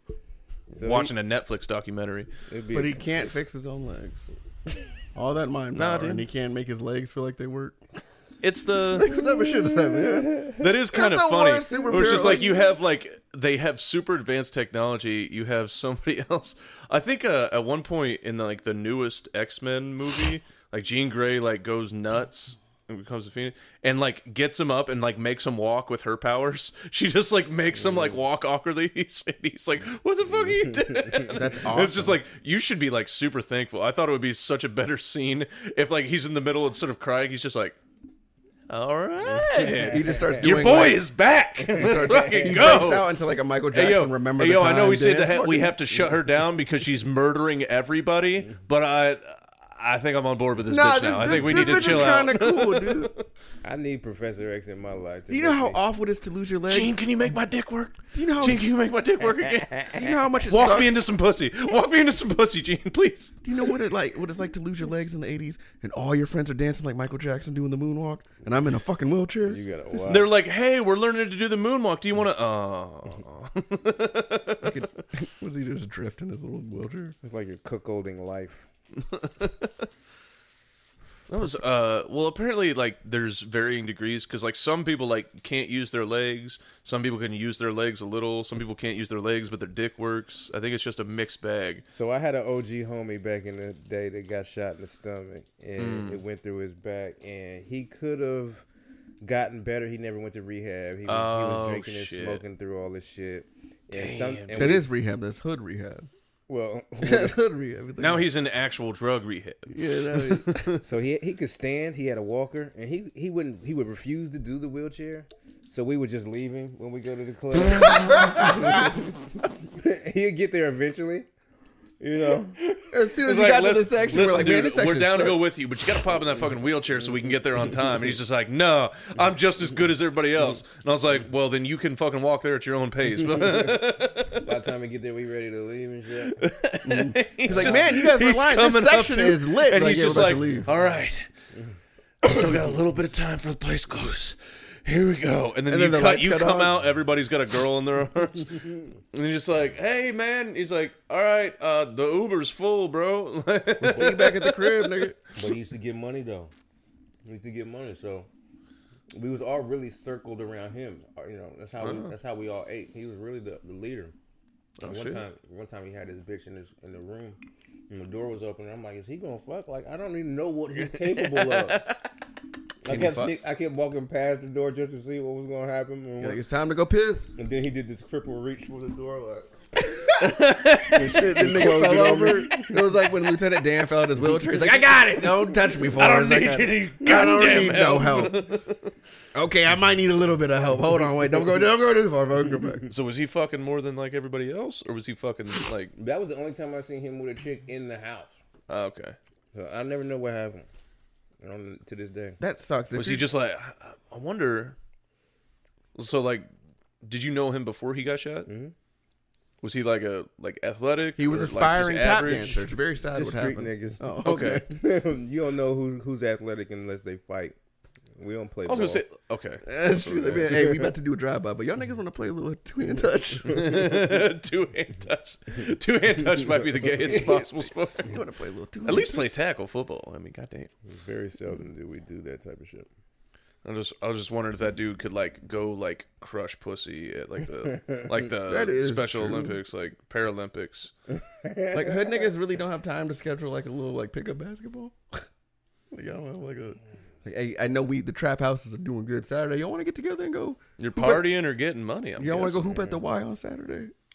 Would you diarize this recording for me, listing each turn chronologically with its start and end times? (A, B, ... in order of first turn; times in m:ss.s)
0:00.7-0:01.1 A
0:00.8-0:02.3 B
0:02.5-0:03.0 A
0:02.7-0:04.3 C
0:05.1-0:07.8 C
0:05.7-0:06.2 B
0:08.4-0:09.2 B
0:08.9-0:12.6 C
0:10.5-0:37.8 B
0:27.8-0:28.2 A
0:30.3-0:31.4 A
0:31.3-0:32.2 C
0:38.7-0:43.2 B
0:39.2-0:40.9 A
0:39.8-0:41.0 C
0:41.6-0:42.9 A
0:41.7-0:46.2 C
0:43.7-0:53.2 B
0:50.7-0:53.1 C
0:51.5-0:52.1 A
0:53.6-0:55.8 A
0:55.3-0:57.0 C
0:56.7-1:03.6 B
0:58.1-0:58.7 C
0:59.4-1:00.0 A
0:59.9-1:01.0 C
1:03.4-1:09.6 C
1:09.4-1:10.3 A
1:10.0-1:14.8 B
1:14.6-1:17.1 C
1:17.2-1:18.7 A
1:19.1-1:19.7 B
1:21.3-1:31.8 B
1:31.9-1:38.6 A
1:35.8-1:36.2 B
1:39.2-1:44.8 A
1:41.1-1:42.4 B
1:43.9-1:44.8 B
1:44.5-1:46.1 C
1:46.5-1:47.4 A
1:47.0-1:48.3 C
1:48.0-1:50.8 B
1:49.7-1:50.7 C
1:50.8-2:01.3 A
1:57.7-1:58.9 C
2:02.0-2:02.6 A
2:02.7-2:14.5 B
2:02.9-2:05.4 C
2:13.2-2:13.8 A
2:14.3-2:16.4 A
2:16.2-2:21.2 B
2:16.8-2:20.7 C
2:17.5-2:17.9 A
2:22.2-2:35.1 B
2:25.7-2:26.7 C
2:33.8-2:35.2 C
2:35.3-2:36.5 A
2:37.2-2:38.3 A
2:39.1-2:44.1 A
2:41.8-2:42.1 B
2:44.8-2:45.2 B
2:44.8-2:51.8 A
2:50.8-2:52.0 B
2:52.8-2:56.4 A
2:52.9-2:53.3 C
2:56.2-2:57.3 C
2:57.4-3:00.3 A
3:00.2-3:01.6 B
3:00.8-3:03.0 A
3:01.0-3:08.5 C
3:04.6-3:08.9 B
3:07.1-3:07.6 A
3:09.3-3:12.8 C
3:10.9-3:11.6 A
3:12.6-3:12.8 A
3:12.9-3:15.9 B
3:16.0-3:18.4 A
3:18.7-3:19.2 B
3:19.5-3:20.7 A
3:21.4-3:22.4 A
3:22.4-3:23.3 C
3:23.0-3:24.8 B
3:26.0-3:26.5 B
3:27.0-3:28.5 B
3:28.4-3:28.7 A
3:29.6-3:32.7 B
3:31.2-3:34.7 C
3:33.1-3:37.6 A
3:34.2-3:34.6 B
3:38.2-3:39.0 A
3:38.6-3:40.7 B
3:39.6-3:43.7 C
3:40.5-3:40.9 A
3:43.4-3:48.2 B
3:43.7-3:44.0 A
3:47.0-3:49.2 C
3:48.8-3:50.7 B
3:50.8-3:52.9 A
3:53.6-4:00.9 B
3:58.5-3:59.6 C
4:01.2-4:02.3 A
4:01.7-4:05.0 C
4:05.9-4:11.2 C
4:10.8-4:12.7 B
4:12.2-4:13.9 C
4:12.7-4:13.0 A